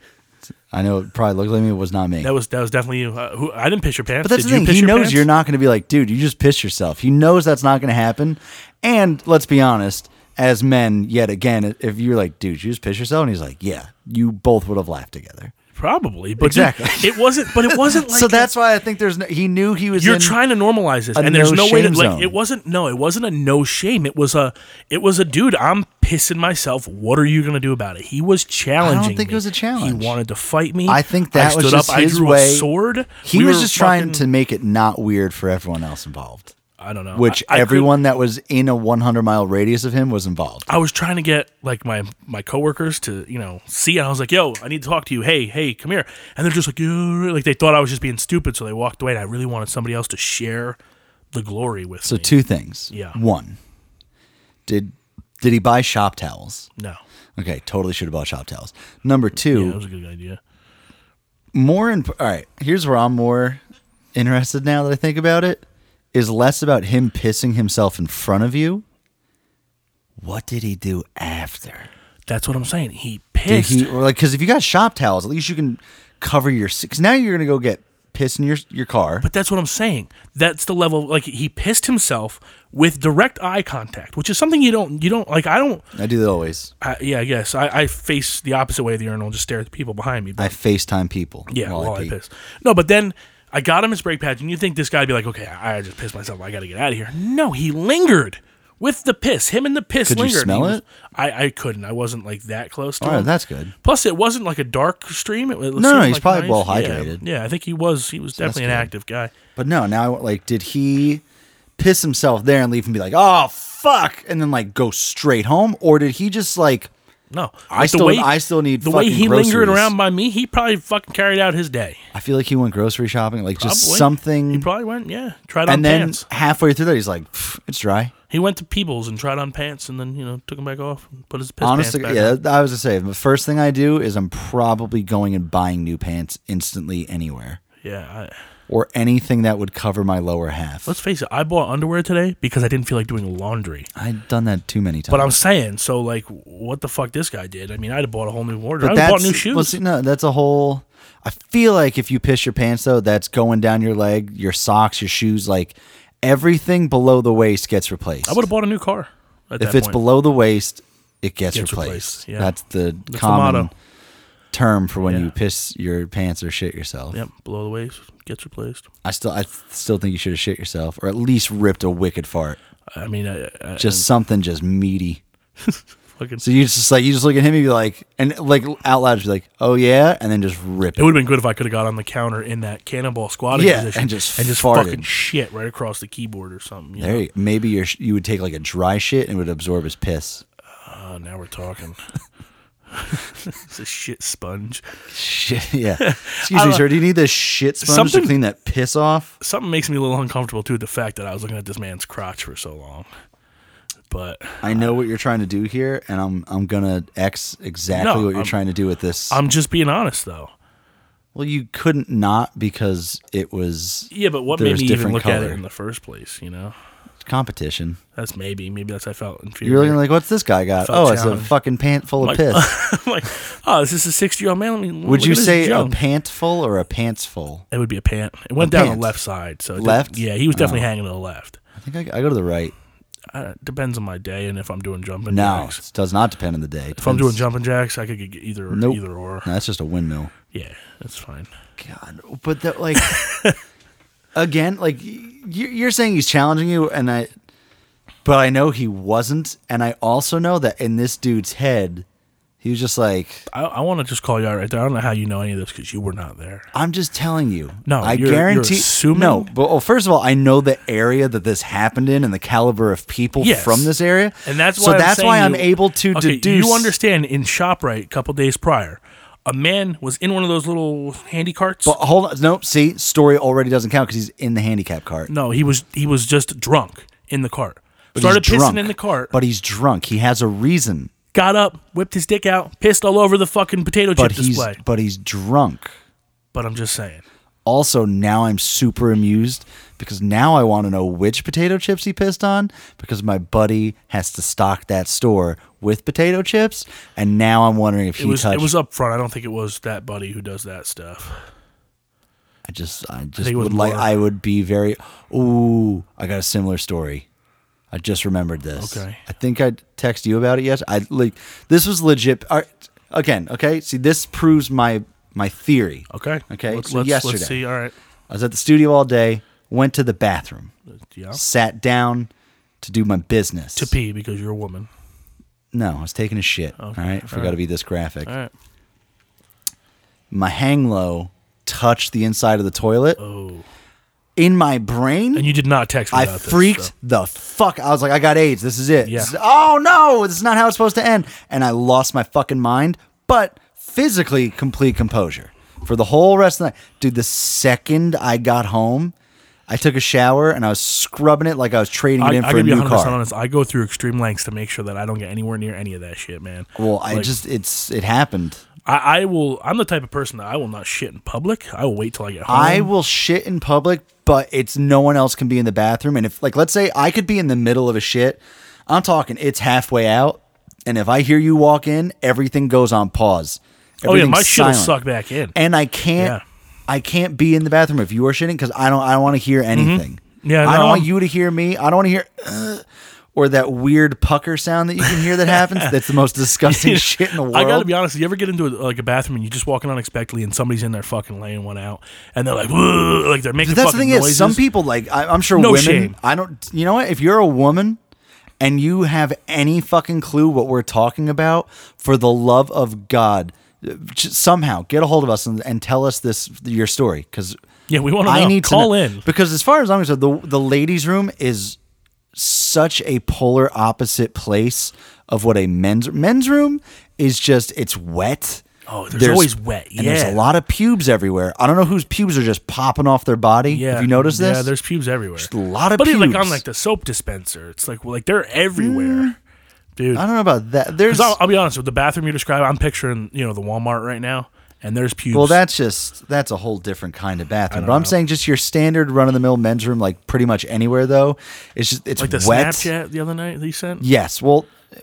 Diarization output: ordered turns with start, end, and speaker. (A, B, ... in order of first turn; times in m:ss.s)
0:00.7-0:02.3 A
0:02.2-0:05.3 B
0:04.2-0:15.5 A
0:15.7-0:18.5 B
0:16.4-0:20.4 A
0:19.9-0:34.2 B
0:21.1-0:22.3 A
0:28.8-0:30.2 A
0:30.9-0:32.7 A
0:33.2-0:36.5 A
0:36.8-0:38.0 B
0:37.1-0:40.7 A
0:40.7-0:50.8 B
0:51.3-0:52.4 B
0:52.0-0:53.6 A
0:52.9-0:53.2 B
0:54.7-0:56.7 A
0:57.4-0:59.8 A
0:59.4-1:00.4 B
1:01.5-1:03.6 A
1:04.1-1:08.8 A
1:10.2-1:11.9 A
1:12.3-1:13.9 B
1:13.5-1:19.2 A
1:19.2-1:25.9 B
1:25.9-1:26.7 A
1:26.8-1:30.5 B
1:30.4-1:32.2 A
1:31.5-1:43.3 B
1:40.1-1:40.8 A
1:43.0-1:43.7 A
1:43.8-1:49.3 B
1:45.7-1:47.2 A
1:48.4-1:48.9 A
1:49.6-1:51.2 A
1:51.8-1:56.9 A
1:57.3-2:02.0 B
1:57.7-1:59.9 A
2:02.1-2:04.7 A
2:03.6-2:06.2 B
2:05.7-2:08.1 A
2:08.3-2:12.4 B
2:11.6-2:17.6 A
2:17.8-2:18.3 B
2:18.7-2:20.9 A
2:20.8-2:23.9 B
2:24.0-2:25.3 A
2:25.1-2:29.8 B
2:28.8-2:38.4 A
2:38.2-2:40.0 B
2:39.6-2:43.7 A
2:41.5-2:42.5 B
2:43.1-2:43.7 B
2:44.5-2:47.2 A
2:45.0-2:45.3 B
2:47.1-2:48.9 B
2:49.0-2:52.6 A
2:52.9-2:54.0 B
2:53.8-2:55.2 A
2:55.6-2:56.4 B
2:56.4-3:01.2 A
3:01.0-3:07.2 B
3:03.5-3:05.0 A
3:07.0-3:10.4 A
3:10.8-3:12.0 B
3:12.9-3:14.8 B
3:15.1-3:19.3 A
3:16.0-3:16.9 B
3:17.8-3:18.4 B
3:19.4-3:23.1 B
3:24.1-3:24.8 B
3:24.6-3:29.4 A
3:27.9-3:28.5 B
3:29.3-3:30.5 B
3:31.3-3:35.6 A
3:34.1-3:36.7 B
3:37.2-3:38.0 A
3:38.2-3:40.0 B
3:39.6-3:42.7 A
3:40.8-3:41.5 B
3:42.2-3:46.0 B
3:45.0-3:47.6 A
3:47.7-3:51.6 B
3:48.6-3:49.1 A
3:49.8-3:50.9 A
3:51.8-3:52.7 A
3:53.3-3:55.8 B
3:55.3-3:57.4 A
3:57.0-3:59.5 B
3:58.7-4:00.3 A
4:00.5-4:01.5 B
4:01.8-4:03.2 A
4:03.0-4:03.6 B
4:04.3-4:07.3 A
4:08.2-4:12.0 A
4:12.6-4:13.4 A
4:13.5-4:16.7 B
4:16.7-4:26.9 A
4:17.8-4:19.5 B
4:23.4-4:23.9 B
4:24.4-4:32.0 B
4:31.8-4:35.3 A
4:35.3-4:39.3 B
4:38.1-4:41.1 A
4:41.3-4:44.8 B
4:44.2-4:45.9 A
4:46.5-4:47.2 B
4:47.6-4:58.7 A
4:58.2-5:01.4 B
5:02.6-5:07.2 A
5:03.4-5:04.1 B
5:07.9-5:17.6 A
5:08.8-5:09.2 B
5:16.1-5:17.9 B
5:18.3-5:20.7 A
5:21.1-5:21.4 B
5:21.3-5:22.3 A
5:22.8-5:23.9 A
5:23.8-5:24.9 B
5:25.7-5:28.3 A
5:26.8-5:27.6 B
5:28.2-5:28.5 B
5:30.3-5:33.2 A
5:33.2-5:33.6 B
5:34.4-5:35.5 A
5:35.3-5:36.9 B
5:36.1-5:49.1 A
5:39.0-5:39.3 B
5:49.7-5:53.2 A
5:52.2-5:57.3 B
5:56.8-5:58.6 A
5:58.8-6:02.9 B
6:02.5-6:15.0 A
6:14.0-6:15.5 B
6:15.5-6:16.4 A
6:16.9-6:27.9 A
6:19.7-6:21.1 B
6:25.0-6:25.9 B
6:26.5-6:34.6 B
6:33.6-6:38.0 A
6:35.5-6:36.2 B
6:38.6-6:47.6 A
6:47.9-6:49.2 B
6:48.2-6:51.8 A
6:52.3-7:04.7 A
6:58.9-7:00.4 B
7:03.7-7:09.3 B
7:05.4-7:06.6 A
7:08.8-7:09.3 A
7:10.0-7:10.2 B
7:10.1-7:11.4 A
7:11.1-7:15.6 B
7:15.3-7:22.9 A
7:17.7-7:18.2 B
7:22.2-7:24.0 B
7:24.0-7:24.7 A